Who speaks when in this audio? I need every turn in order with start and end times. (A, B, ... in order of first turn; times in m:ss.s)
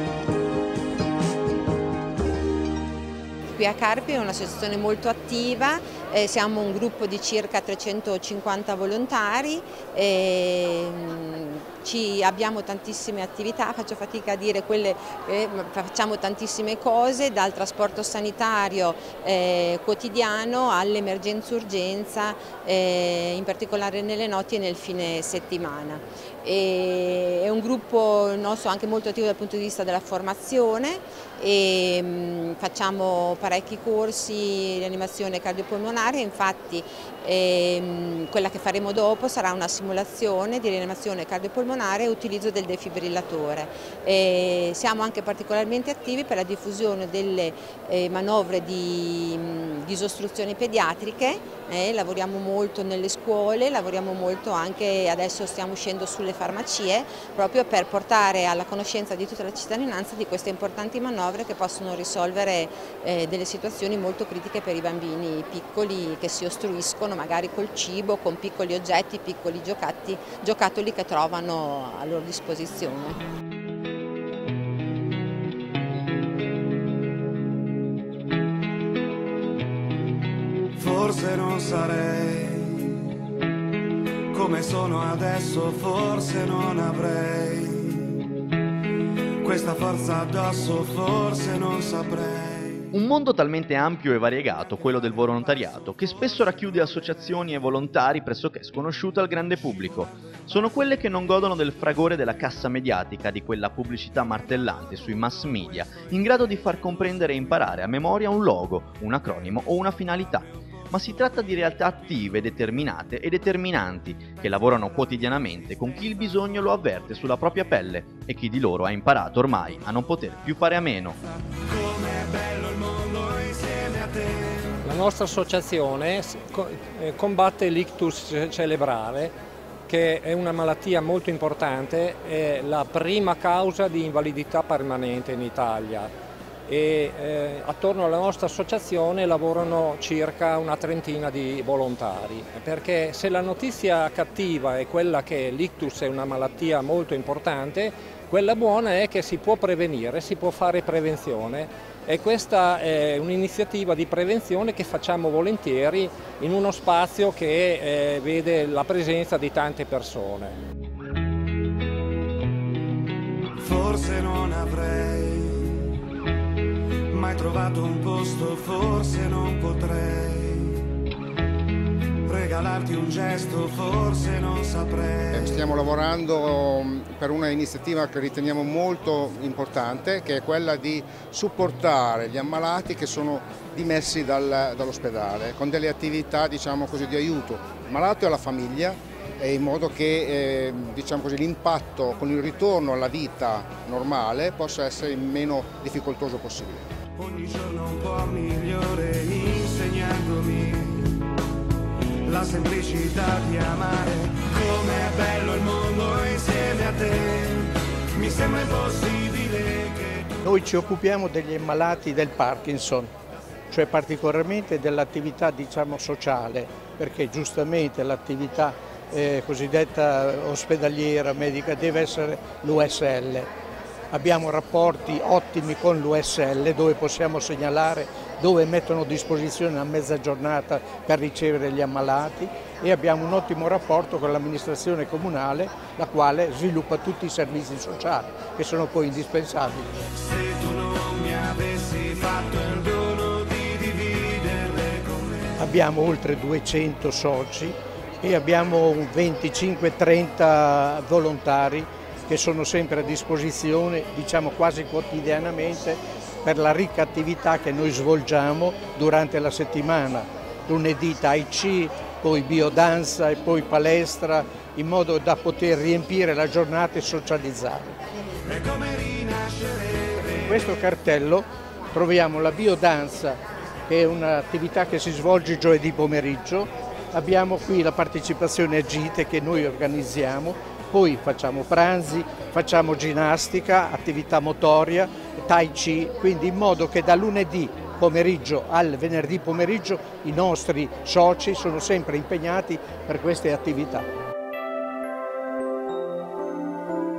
0:03.5-1:13.2 A
1:20.8-1:22.9 B
1:24.3-1:28.0 B
1:29.4-1:32.8 B
1:32.9-2:01.2 C
2:01.6-2:04.7 B
2:04.8-2:09.3 D
2:09.9-2:16.1 D
2:16.7-2:40.6 D
2:43.6-2:45.8 B
2:47.1-2:50.8 B
2:52.2-2:55.4 B
2:55.3-3:16.9 E
3:17.2-3:21.2 B
3:22.3-3:30.1 B
3:30.4-3:33.1 F
3:33.7-3:43.5 F
3:44.1-3:59.9 F
4:00.2-4:05.5 B
4:05.6-4:28.0 F
4:28.5-4:30.5 B
4:30.3-4:54.0 F